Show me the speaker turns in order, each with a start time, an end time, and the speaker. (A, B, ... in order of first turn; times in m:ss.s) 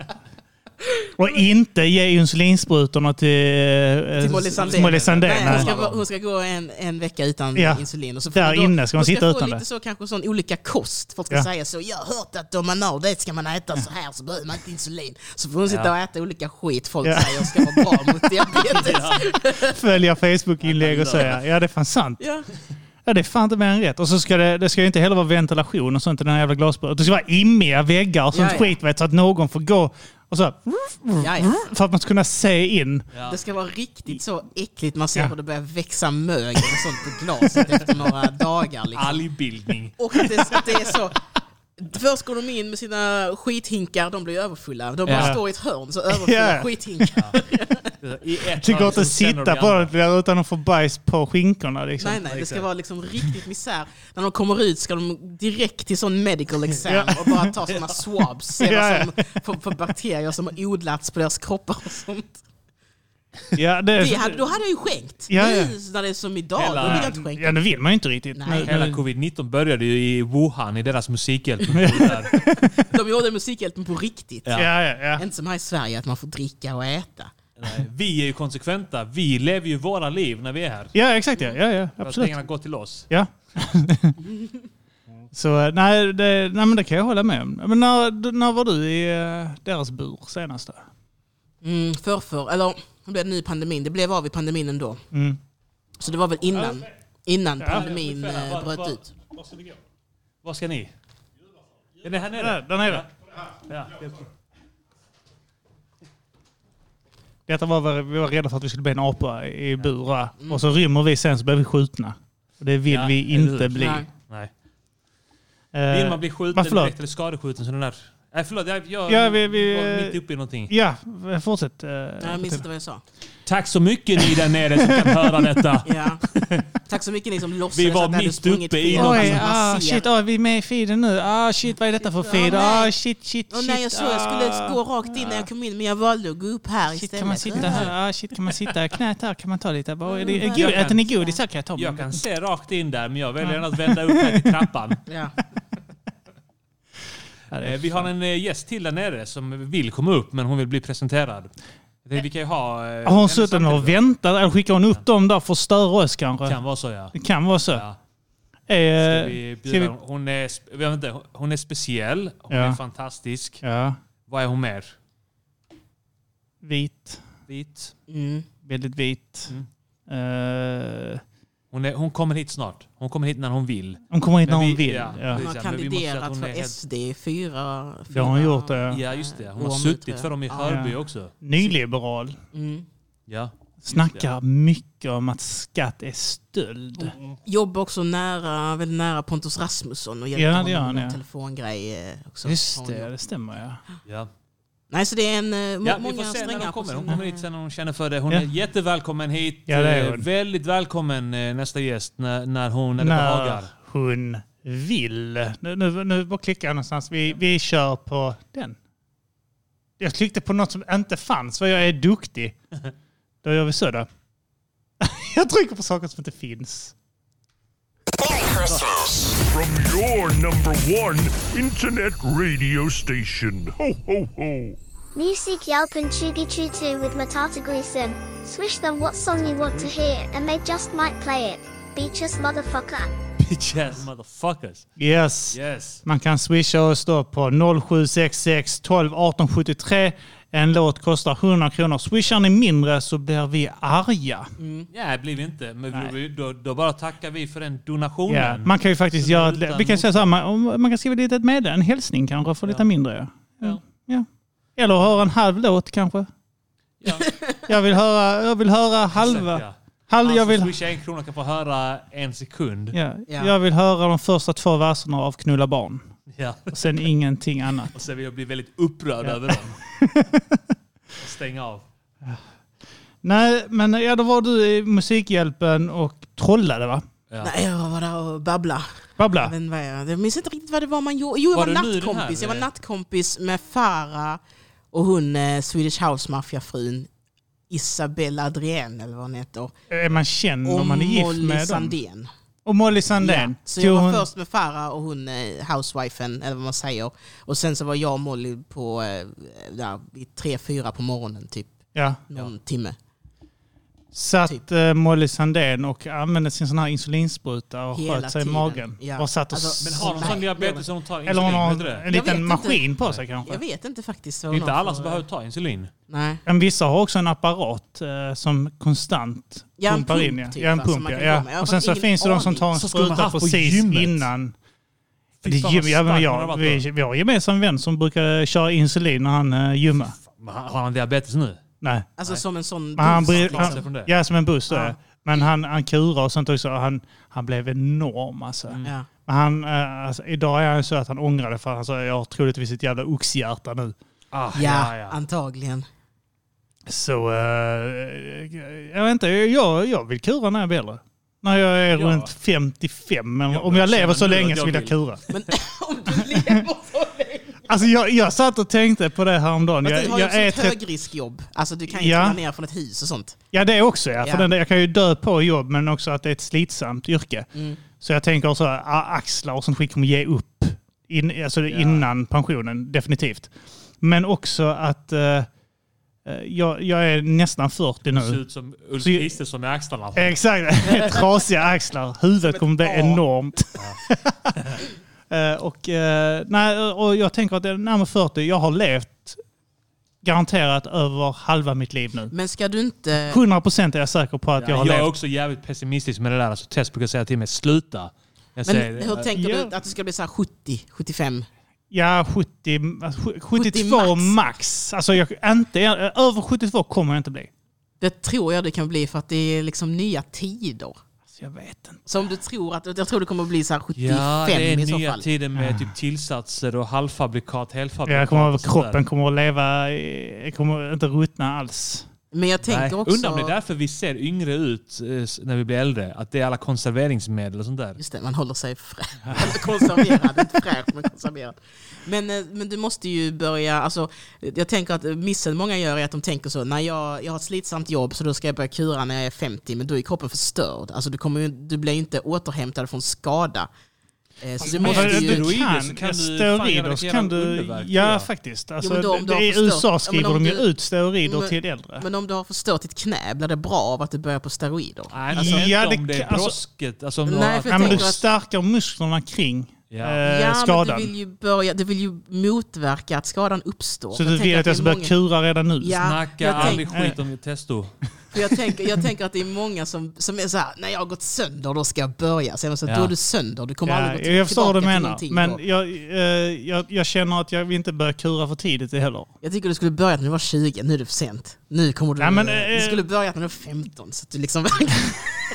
0:01.2-0:05.7 A
0:04.2-0:19.8 B
0:04.6-0:06.0 C
0:07.5-0:09.6 A
0:15.7-0:15.9 C
0:17.0-0:18.3 A
0:18.7-0:19.2 C
0:19.6-0:22.2 A
0:20.6-0:21.4 C
0:22.2-0:22.5 B
0:23.0-0:33.1 A
0:28.3-0:28.8 B
0:31.2-0:31.7 B
0:33.1-0:33.4 C
0:33.2-0:39.2 B
0:38.9-0:40.0 C
0:40.0-0:41.2 B
0:41.8-0:47.9 B
0:45.0-0:45.4 C
0:46.1-0:47.1 A
0:48.0-0:49.9 C
0:48.6-0:52.2 A
0:52.0-1:02.4 B
0:52.2-0:52.6 C
0:56.8-0:57.5 A
0:58.6-0:59.1 A
1:03.5-1:04.5 A
1:04.0-1:07.6 B
1:05.3-1:05.7 A
1:06.6-1:07.2 C
1:06.8-1:09.0 A
1:08.3-1:08.8 B
1:08.6-1:12.4 C
1:11.7-1:12.8 A
1:12.9-1:17.3 B
1:14.4-1:14.7 C
1:14.5-1:15.2 A
1:17.6-1:20.9 C
1:20.9-1:22.4 A
1:22.0-1:23.1 C
1:23.1-1:24.2 A
1:25.3-1:30.9 A
1:31.6-1:35.0 B
1:35.1-1:35.4 A
1:36.0-1:39.1 B
1:36.6-1:36.8 A
1:37.6-1:37.9 A
1:37.7-1:39.8 C
1:40.4-1:40.9 C
1:42.0-1:43.1 C
1:42.4-1:43.1 A
1:43.7-1:44.0 C
1:47.5-1:54.0 A
1:52.9-1:54.5 C
1:53.7-1:54.1 B
1:55.7-1:56.9 A
1:55.9-2:00.7 C
1:59.1-2:02.6 A
2:02.2-2:03.0 B
2:03.4-2:06.6 C
2:05.8-2:06.2 B
2:06.8-2:10.0 B
2:07.7-2:09.5 C
2:08.9-2:15.4 A
2:12.2-2:12.9 B
2:13.5-2:17.9 B
2:16.9-2:22.2 A
2:17.5-2:17.9 C
2:20.0-2:21.4 B
2:20.3-2:21.1 C
2:21.8-2:25.0 C
2:23.4-2:24.5 A
2:25.1-2:25.3 B
2:27.5-2:28.1 A
2:27.6-2:34.0 C
2:33.0-2:36.6 A
2:36.4-2:37.2 C
2:37.1-2:37.8 A
2:37.7-2:38.0 C
2:38.7-2:39.9 A
2:39.0-2:43.6 C
2:42.5-2:42.8 A
2:43.6-2:44.0 A
2:44.3-2:45.0 C
2:46.6-2:47.2 A
2:47.5-2:47.9 C
2:48.1-2:48.5 B
2:48.6-2:49.5 A
2:50.1-2:51.2 A
2:51.7-2:56.7 C
2:54.1-2:55.4 A
2:55.3-3:00.8 B
2:58.1-2:59.0 A
2:58.9-3:01.3 C
3:00.6-3:02.4 A
3:02.5-3:02.8 B
3:03.3-3:04.3 C
3:03.8-3:07.2 A
3:07.0-3:13.1 B
3:10.3-3:11.2 A
3:12.4-3:13.8 A
3:14.9-3:17.4 B
3:15.8-3:23.7 C
3:19.7-3:20.2 A
3:23.0-3:28.8 A
3:30.0-3:32.6 A
3:33.4-3:34.1 A
3:35.0-3:36.9 A
3:38.7-3:44.8 D
3:45.2-3:53.1 E
3:49.4-3:49.9 C
3:53.4-3:54.9 C
3:55.0-4:04.5 A
3:55.5-3:56.0 C
4:04.6-4:04.9 B
4:04.9-4:10.3 C
4:08.3-4:16.3 A
4:17.0-4:17.3 C
4:17.3-4:17.6 B
4:17.7-4:20.7 A
4:19.1-4:23.0 C
4:22.9-4:26.1 A
4:23.3-4:23.5 B
4:26.3-4:26.7 C
4:26.7-4:27.9 A
4:27.9-4:29.8 C
4:29.2-4:30.6 A
4:31.2-4:31.8 C
4:33.2-4:37.0 A
4:37.4-4:44.4 B
4:39.2-4:39.5 A
4:41.5-4:42.7 C
4:44.9-4:47.1 B
4:47.7-4:49.7 B
4:49.9-4:52.0 A
4:50.6-4:52.3 B
4:52.6-4:54.2 A
4:53.2-5:03.0 B
5:01.9-5:02.2 A
5:04.1-5:10.4 A
5:07.9-5:10.9 B
5:09.8-5:12.1 C
5:11.2-5:13.6 A
5:12.1-5:15.2 B
5:14.5-5:15.9 C
5:16.1-5:16.4 B
5:16.4-5:24.5 A
5:19.8-5:22.7 B
5:22.7-5:24.3 C
5:25.4-5:26.8 C
5:25.4-5:30.2 A
5:30.2-5:31.6 C
5:31.8-5:32.1 A
5:32.2-5:34.0 B
5:33.0-5:43.9 A
5:33.0-5:34.1 C
5:34.7-5:35.4 B
5:38.8-5:39.1 B
5:44.3-5:45.2 C
5:44.5-5:45.9 B
5:46.8-5:55.2 A
5:51.9-5:52.3 C
5:53.5-5:55.4 C
5:55.3-5:57.6 B
5:57.7-6:00.8 A
5:59.8-6:03.4 B
6:01.9-6:02.4 A
6:03.5-6:07.5 A
6:04.2-6:04.5 B
6:07.5-6:07.8 B
6:08.0-6:15.5 A
6:11.7-6:12.0 C
6:16.2-6:18.4 A
6:18.1-6:20.4 C
6:19.0-6:19.3 A
6:20.1-6:24.5 A
6:22.4-6:23.2 B
6:25.3-6:29.4 A
6:30.2-6:32.3 A
6:32.3-6:33.4 B
6:33.3-6:35.1 A
6:34.6-6:39.3 C
6:38.6-6:41.5 B
6:39.3-6:39.7 A
6:41.9-6:47.5 A
6:43.5-6:44.3 B
6:48.0-6:51.0 B
6:51.3-6:52.1 A
6:52.0-6:55.2 B
6:54.0-6:59.0 C
6:55.6-6:55.9 A
6:58.0-7:02.1 A
7:02.3-7:03.5 B
7:02.6-7:08.0 C
7:08.0-7:23.7 B
7:09.3-7:10.5 A
7:24.4-7:25.5 B
7:24.6-7:28.3 C
7:24.6-7:32.1 A
7:28.8-7:30.7 B
7:31.2-7:35.7 B
7:35.1-7:38.2 C
7:35.3-7:36.6 A
7:37.2-7:38.2 B
7:37.7-7:41.1 A
7:39.9-7:40.2 C
7:40.2-7:45.1 B
7:44.1-7:46.0 A
7:45.8-7:46.8 B
7:46.0-7:47.9 C
7:46.6-7:47.2 A
7:48.3-7:55.6 B
7:52.8-7:53.1 C
7:53.8-7:59.3 A
7:59.4-8:05.3 B
8:02.2-8:03.0 A